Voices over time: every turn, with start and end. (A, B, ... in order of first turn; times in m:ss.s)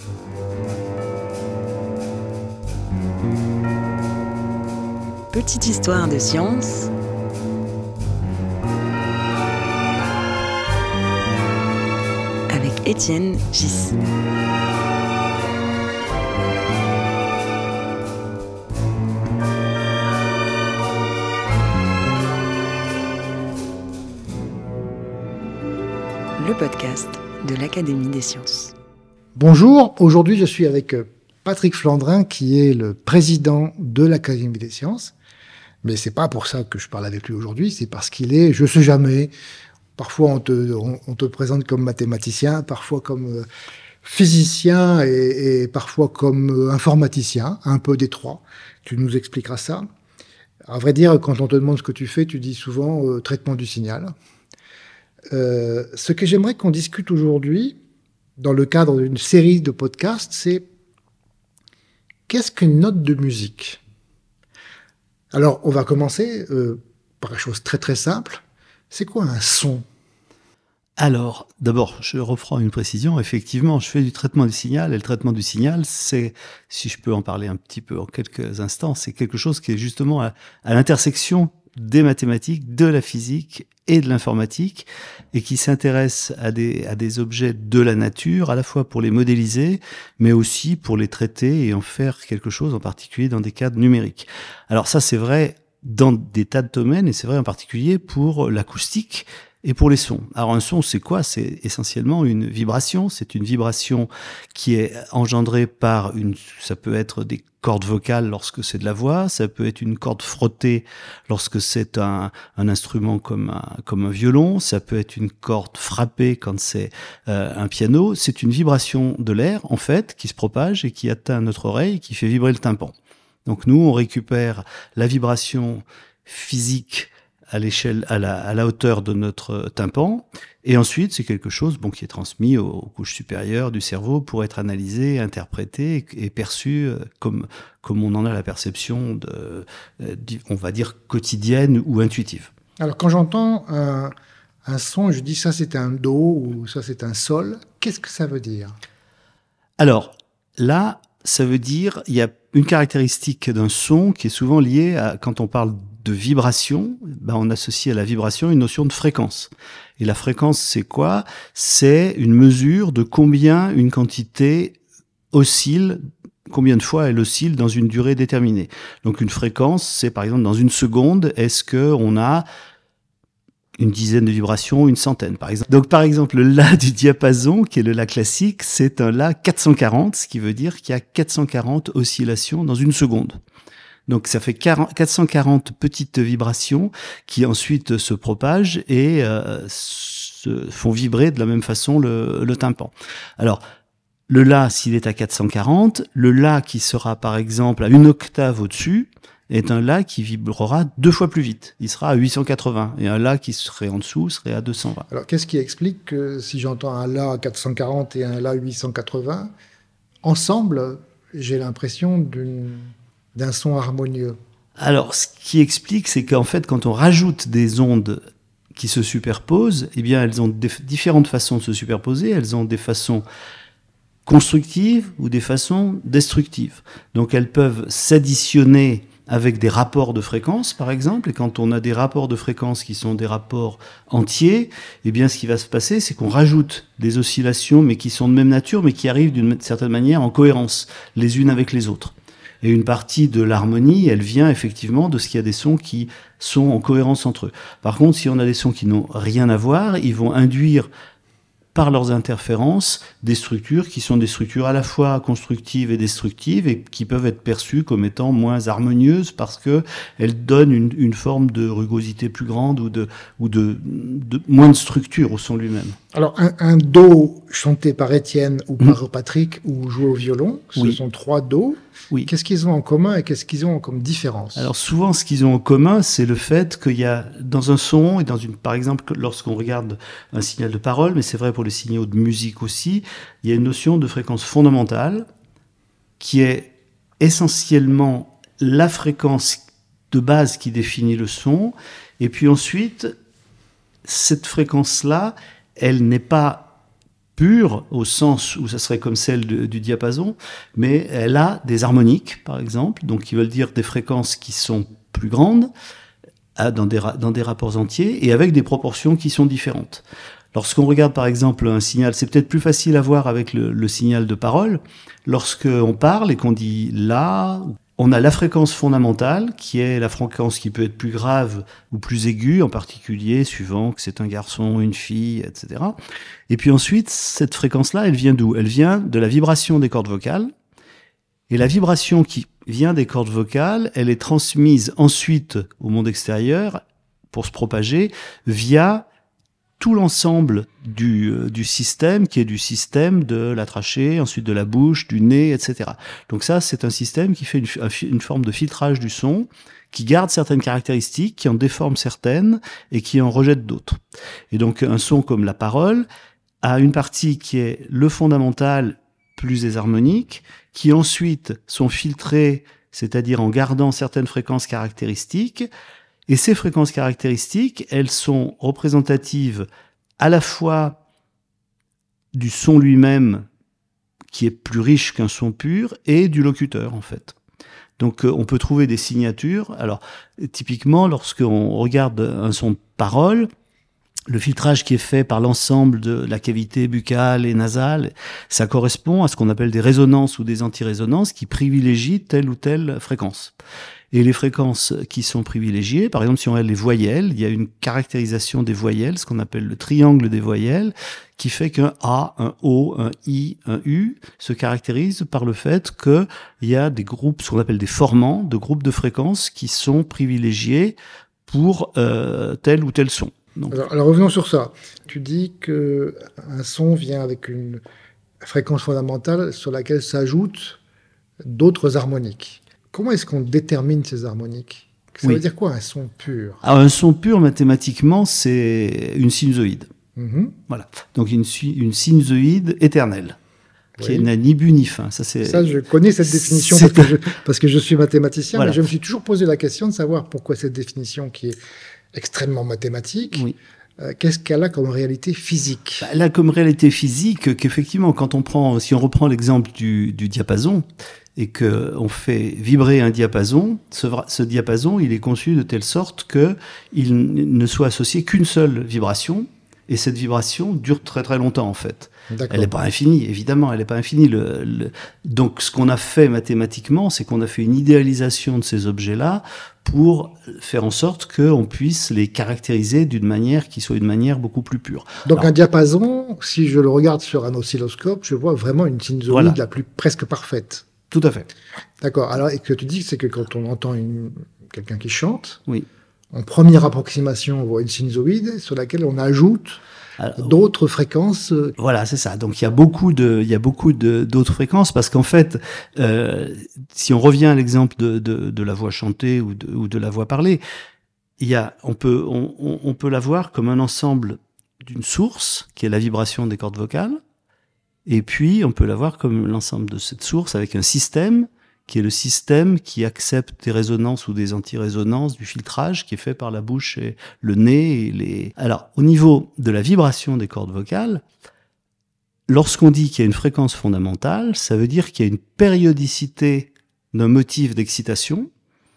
0:05.3-0:06.9 A
0:12.5-0:14.0 A
0:26.4-0:28.7 A
0:29.4-0:35.1 B
0:35.8-0:39.3 B
0:40.0-0:43.4 B
0:44.0-0:49.8 B
0:50.7-0:54.1 B
0:55.3-0:57.8 B
0:58.4-1:00.7 B
1:02.3-1:03.8 B
1:05.3-1:09.8 B
1:11.0-2:02.9 C
2:03.5-2:22.5 C
2:22.8-2:24.1 B
2:24.6-2:28.8 B
2:29.8-2:44.8 C
2:45.3-2:52.4 C
2:53.8-3:03.4 C
3:04.1-3:13.6 C
3:14.3-3:25.1 C
3:25.1-3:29.5 B
3:30.2-3:34.4 B
3:34.8-3:38.2 C
3:38.8-3:43.2 C
3:44.3-4:10.9 C
4:11.7-4:26.0 C
4:26.1-4:34.7 B
4:34.6-4:45.3 C
4:46.2-4:53.1 C
4:54.1-4:56.7 C
4:57.4-5:05.7 C
5:06.6-5:10.0 C
5:10.5-5:26.0 C
5:26.5-5:30.5 C
5:31.5-5:36.8 C
5:37.3-5:39.1 C
5:39.8-5:54.0 C
5:54.5-5:56.1 C
5:56.6-6:05.7 C
6:06.3-6:09.7 C
6:10.2-6:11.0 C
6:12.4-6:13.4 C
6:14.3-6:17.4 C
6:18.0-6:23.5 C
6:24.3-6:33.5 C
6:34.1-6:51.0 C
6:51.5-6:53.8 C
6:53.7-6:57.8 B
6:58.4-7:00.8 B
7:01.4-7:06.6 B
7:06.6-7:09.9 C
7:10.2-7:10.6 B
7:10.7-7:13.4 C
7:14.0-7:14.3 B
7:14.0-7:17.2 C
7:15.4-7:21.6 B
7:18.5-7:18.8 C
7:22.1-7:23.5 B
7:24.0-7:26.1 B
7:26.0-7:30.8 C
7:31.4-7:55.5 C
7:42.3-7:42.7 B
7:55.2-8:00.9 B
7:59.3-7:59.6 C
8:01.1-8:01.5 C
8:02.0-8:05.6 B
8:06.3-8:09.8 B
8:10.2-8:10.6 C
8:10.4-8:11.7 B
8:11.8-8:20.6 C
8:21.4-8:27.2 C
8:28.1-8:41.2 C
8:42.5-8:48.5 C